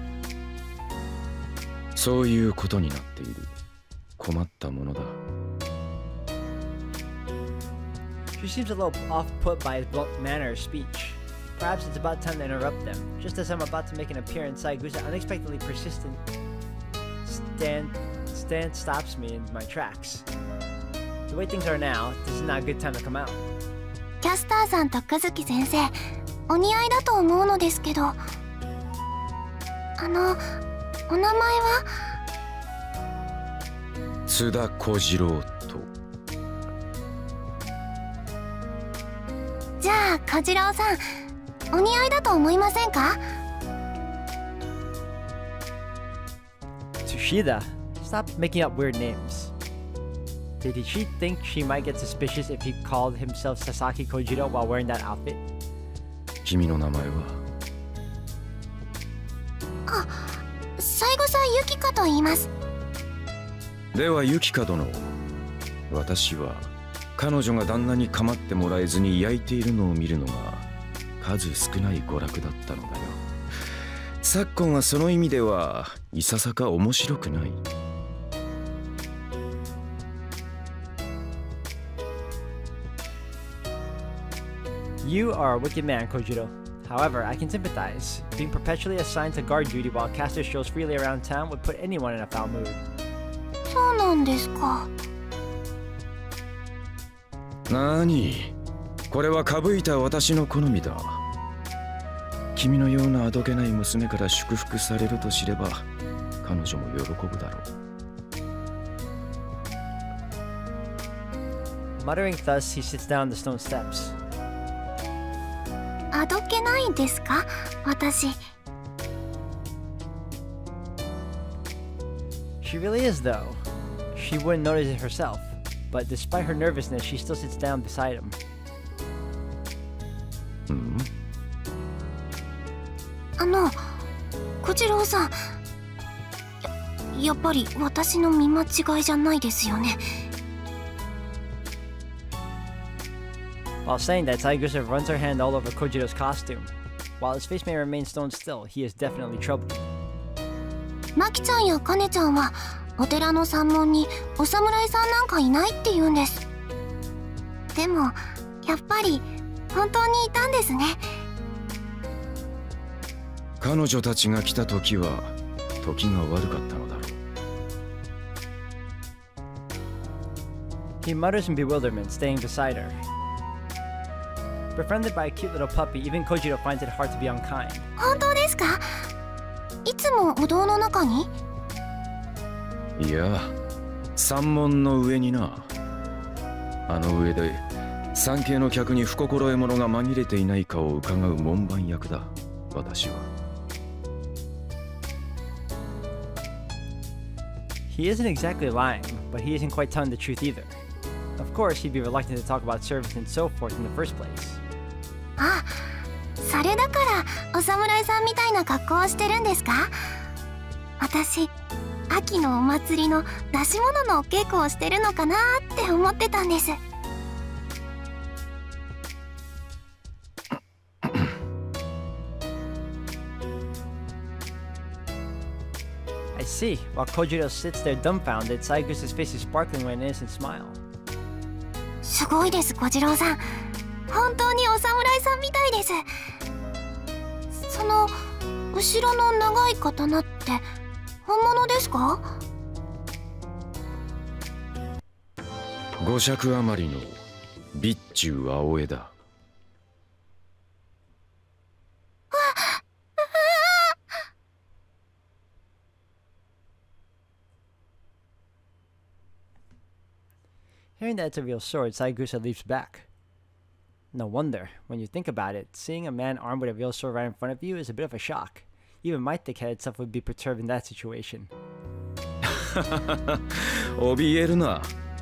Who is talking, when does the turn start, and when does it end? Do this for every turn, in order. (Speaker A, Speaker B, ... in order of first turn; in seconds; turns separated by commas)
Speaker A: 2.0-3.5, Speaker A: 4.2-5.2, Speaker B: 8.4-16.2, Speaker B: 17.2-20.3, Speaker B: 21.3-23.4, Speaker C: 24.2-26.0, Speaker C: 26.5-28.2, Speaker C: 30.0-30.4, Speaker C: 31.1-31.9, Speaker A: 34.3-35.9, Speaker C: 39.8-41.0, Speaker C: 41.7-43.2, Speaker B: 47.0-49.5, Speaker B: 50.6-55.4, Speaker A: 56.4-57.4, Speaker C: 59.9-62.5, Speaker A: 63.9-65.2, Speaker A: 65.9-70.7, Speaker A: 71.2-73.2, Speaker A: 74.2-77.6, Speaker B: 85.0-92.8, Speaker C: 93.7-94.9, Speaker A: 97.7-98.5, Speaker A: 99.1-101.2, Speaker A: 102.5-105.9, Speaker A: 106.4-107.7, Speaker B: 112.0-114.2, Speaker C: 116.1-118.4, Speaker B: 122.6-128.4, Speaker A: 130.7-131.1, Speaker C: 133.4-134.0, Speaker C: 134.6-135.4, Speaker C: 137.1-140.0, Speaker B: 143.8-149.8, Speaker C: 151.2-156.4, Speaker C: 157.8-161.1, Speaker A: 163.6-167.2, Speaker B: 171.0-173.0, Speaker B: 174.8-177.9, Speaker C: 178.0-179.1, Speaker C: 179.8-181.3, Speaker A: 183.0-183.6, Speaker A: 184.2-185.7, Speaker A: 186.9-193.3, Speaker B: 197.9-200.8, Speaker B: 201.4-204.6, Speaker C: 205.4-210.2, Speaker C: 211.0-211.5, Speaker C: 212.1-216.8, Speaker B: 226.3-230.8, Speaker C: 232.0-233.4, Speaker C: 234.1-236.0, Speaker C: 237.6-238.2, Speaker C: 238.7-240.7, Speaker C: 241.3-242.3, Speaker A: 246.0-247.2, Speaker A: 247.7-249.1, Speaker C: 252.3-252.8, Speaker B: 261.0-263.1, Speaker B: 264.1-271.5, Speaker A: 272.5-274.9